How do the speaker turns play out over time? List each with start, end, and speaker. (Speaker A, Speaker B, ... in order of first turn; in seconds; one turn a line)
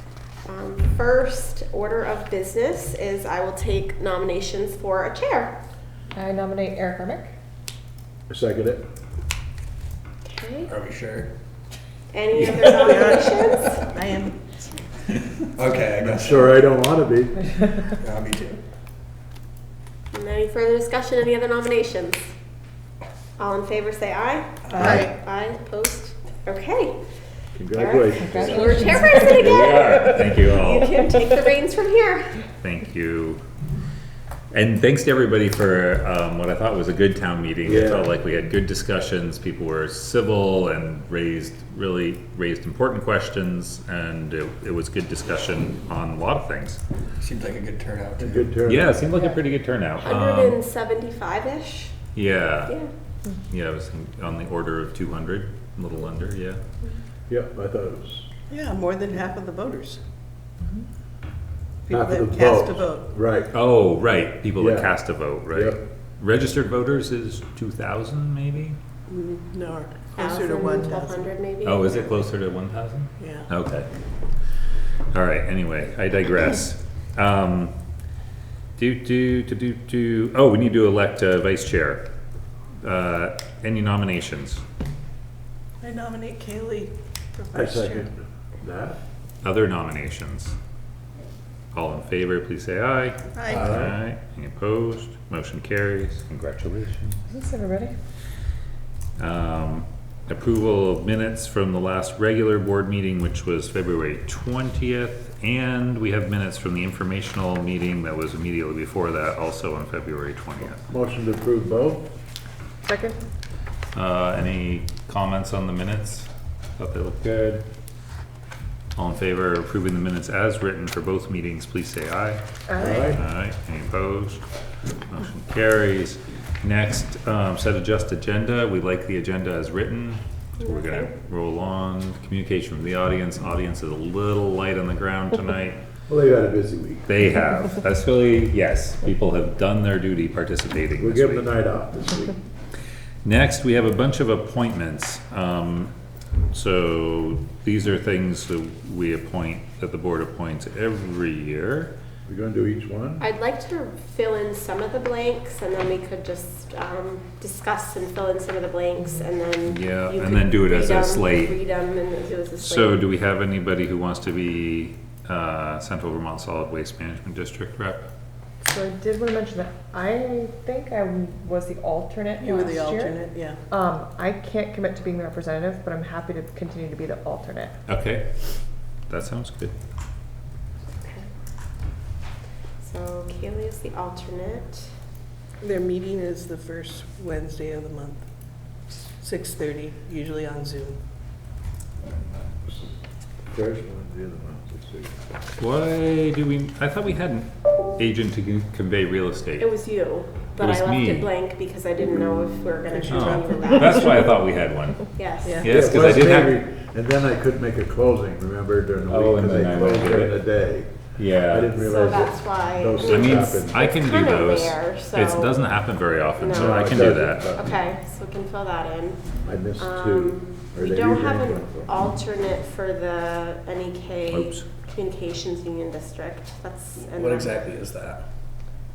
Speaker A: 0.5-5.6
Speaker B: 6.1-7.3
Speaker C: 8.3-8.8
Speaker A: 10.2-10.7
Speaker D: 10.7-11.3
Speaker A: 12.1-13.8
Speaker E: 12.4-14.4
Speaker D: 15.1-16.6
Speaker C: 16.0-17.7
Speaker D: 18.0-18.6
Speaker A: 20.1-22.3
Speaker A: 23.4-27.0
Speaker D: 24.6-25.1
Speaker C: 27.5-29.0
Speaker A: 27.7-32.4
Speaker B: 28.2-29.4
Speaker F: 29.2-31.0
Speaker F: 32.6-33.4
Speaker F: 34.5-46.8
Speaker C: 37.6-38.1
Speaker D: 47.2-48.6
Speaker C: 48.2-49.1
Speaker F: 48.6-50.6
Speaker A: 50.0-52.0
Speaker F: 52.1-52.8
Speaker F: 53.5-56.6
Speaker C: 57.3-58.3
Speaker E: 58.5-60.0
Speaker E: 61.9-63.1
Speaker C: 61.9-63.5
Speaker F: 63.5-68.8
Speaker C: 64.6-65.0
Speaker C: 65.5-65.8
Speaker E: 69.1-71.3
Speaker A: 70.1-72.2
Speaker F: 71.6-73.9
Speaker E: 73.2-73.5
Speaker F: 75.1-77.7
Speaker F: 78.8-82.0
Speaker F: 82.8-84.6
Speaker E: 85.8-88.1
Speaker C: 87.5-89.0
Speaker F: 89.4-90.5
Speaker F: 91.7-97.2
Speaker E: 93.3-93.7
Speaker D: 93.4-93.9
Speaker C: 93.5-93.9
Speaker B: 97.3-97.9
Speaker F: 99.2-110.8
Speaker C: 110.9-112.1
Speaker B: 112.8-113.2
Speaker F: 113.9-117.7
Speaker F: 119.0-124.4
Speaker B: 122.7-123.1
Speaker C: 122.8-123.2
Speaker F: 125.1-135.8
Speaker A: 130.6-131.1
Speaker C: 136.1-137.1
Speaker F: 137.1-141.5
Speaker C: 141.0-142.4
Speaker F: 143.2-145.9
Speaker F: 146.5-151.9
Speaker C: 152.2-153.2
Speaker A: 153.2-163.1
Speaker F: 159.7-161.6
Speaker F: 162.6-168.1
Speaker B: 168.6-173.2
Speaker E: 172.4-173.6
Speaker B: 173.7-177.8
Speaker F: 177.9-178.5
Speaker F: 179.1-179.7
Speaker A: 180.9-181.3
Speaker A: 182.8-184.9
Speaker E: 185.6-188.2
Speaker E: 189.2-191.0
Speaker C: 193.5-195.2
Speaker F: 195.6-199.7
Speaker A: 199.6-204.3
Speaker F: 200.6-201.3
Speaker E: 202.9-204.2
Speaker F: 203.1-206.6
Speaker A: 205.1-205.6
Speaker E: 205.4-205.8
Speaker C: 205.6-210.9
Speaker F: 209.1-210.4
Speaker F: 211.2-211.8
Speaker C: 211.4-213.8
Speaker A: 211.8-215.6
Speaker F: 213.0-217.6
Speaker A: 216.4-219.2
Speaker C: 216.4-217.8
Speaker C: 219.4-221.9
Speaker A: 219.8-227.6
Speaker F: 224.3-224.6
Speaker D: 226.9-228.2